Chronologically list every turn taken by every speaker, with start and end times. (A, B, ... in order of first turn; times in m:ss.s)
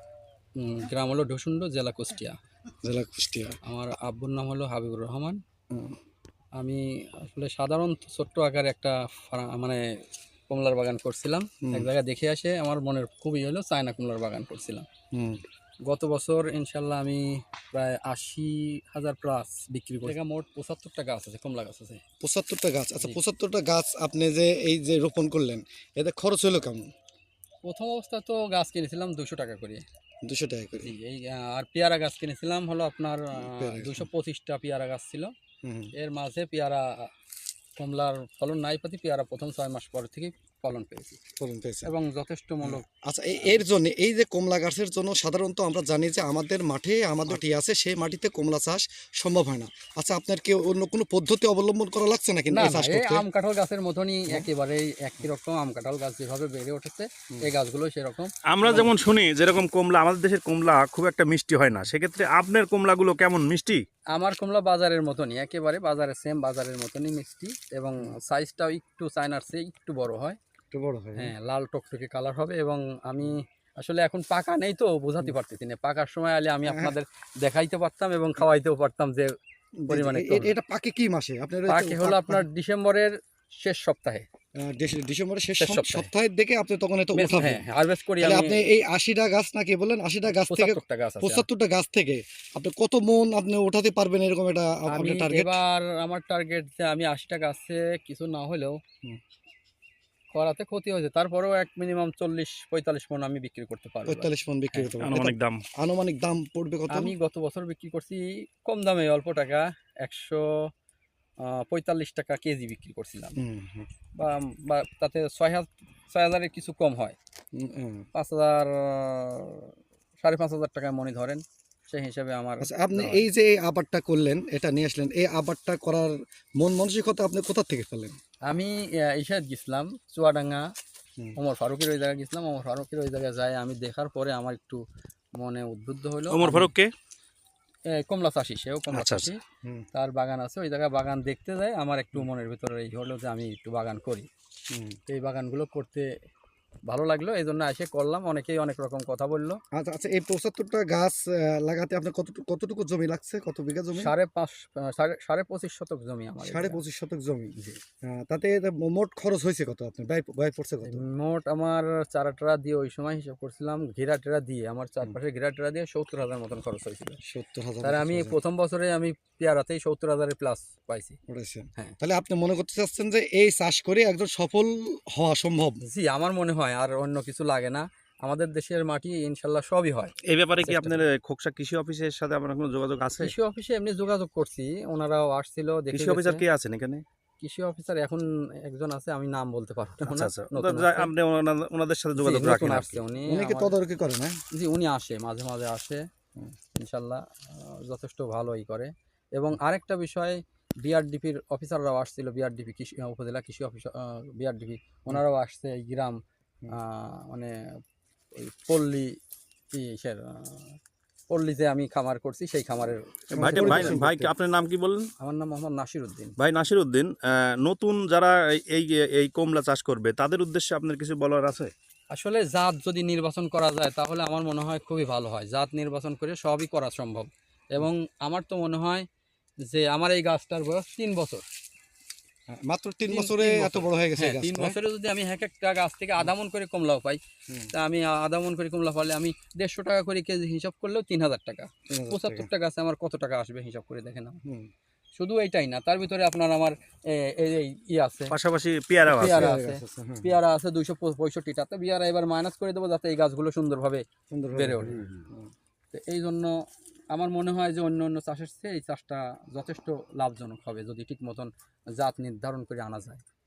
0:00.6-0:02.4 A
0:02.8-0:03.6 B
0:03.6-0:05.4 A
0:05.7-0:06.0 B
0:06.6-0:09.8 A
0:10.5-0:14.8 A
0:11.6-0:11.9 B
0:15.1-0:15.4 B
0:15.8-0:22.0 A
0:22.2-0:26.9 B
0:27.6-0:29.8 A
0:30.2-0:30.9 B
0:30.8-0:35.3 A
0:33.3-0:34.1 B
0:35.6-0:35.9 B
0:35.9-0:37.1 A
0:37.8-0:41.2 A
0:41.4-0:41.9 B
0:41.8-0:42.8 A
0:42.6-0:53.2 B
0:52.5-0:58.9 A
0:58.5-1:03.8 C
1:04.1-1:10.4 A
1:10.7-1:11.3 B
1:11.2-1:19.3 A
1:16.6-1:17.0 B
1:19.8-1:22.4 B
1:19.9-1:20.5 A
1:21.7-1:24.3 A
1:24.5-1:27.6 B
1:25.6-1:26.1 A
1:27.1-1:28.6 A
1:28.2-1:35.6 B
1:30.3-1:31.4 A
1:34.9-1:38.8 A
1:40.3-1:44.9 A
1:44.0-1:47.1 B
1:45.0-1:45.6 C
1:46.9-1:50.7 A
1:51.4-1:53.4 A
1:53.4-1:53.9 B
1:54.2-1:57.2 A
1:57.5-1:58.1 B
1:58.1-2:03.2 A
2:02.6-2:08.2 B
2:08.5-2:10.6 A
2:11.4-2:14.8 A
2:15.4-2:16.7 A
2:16.3-2:16.9 C
2:17.9-2:19.4 A
2:18.9-2:19.3 C
2:19.9-2:24.3 A
2:24.7-2:25.0 B
2:25.1-2:26.1 A
2:26.9-2:29.6 A
2:29.7-2:34.1 B
2:34.0-2:36.8 A
2:36.4-2:41.0 B
2:40.8-2:47.2 A
2:47.2-2:48.4 B
2:47.8-2:51.2 A
2:51.3-2:55.8 B
2:55.8-3:01.0 A
3:00.2-3:03.3 C
3:03.2-3:06.4 A
3:05.9-3:07.0 C
3:07.4-3:11.1 A
3:10.0-3:13.0 C
3:12.2-3:13.7 A
3:13.2-3:14.4 B
3:14.5-3:16.0 A
3:16.8-3:26.2 A
3:26.7-3:27.5 A
3:28.3-3:29.1 A
3:29.7-3:30.8 A
3:31.3-3:34.0 A
3:33.3-3:34.3 B
3:33.4-3:35.1 C
3:35.2-3:36.4 A
3:36.4-3:41.7 C
3:42.1-3:49.0 A
3:49.7-3:51.4 A
3:52.5-3:54.8 B
3:53.1-3:57.2 A
3:57.7-4:04.4 A
4:01.9-4:02.5 B
4:04.4-4:04.7 B
4:05.1-4:08.3 A
4:08.3-4:09.6 C
4:09.0-4:15.0 A
4:09.1-4:10.4 B
4:14.3-4:15.5 B
4:15.9-4:23.2 A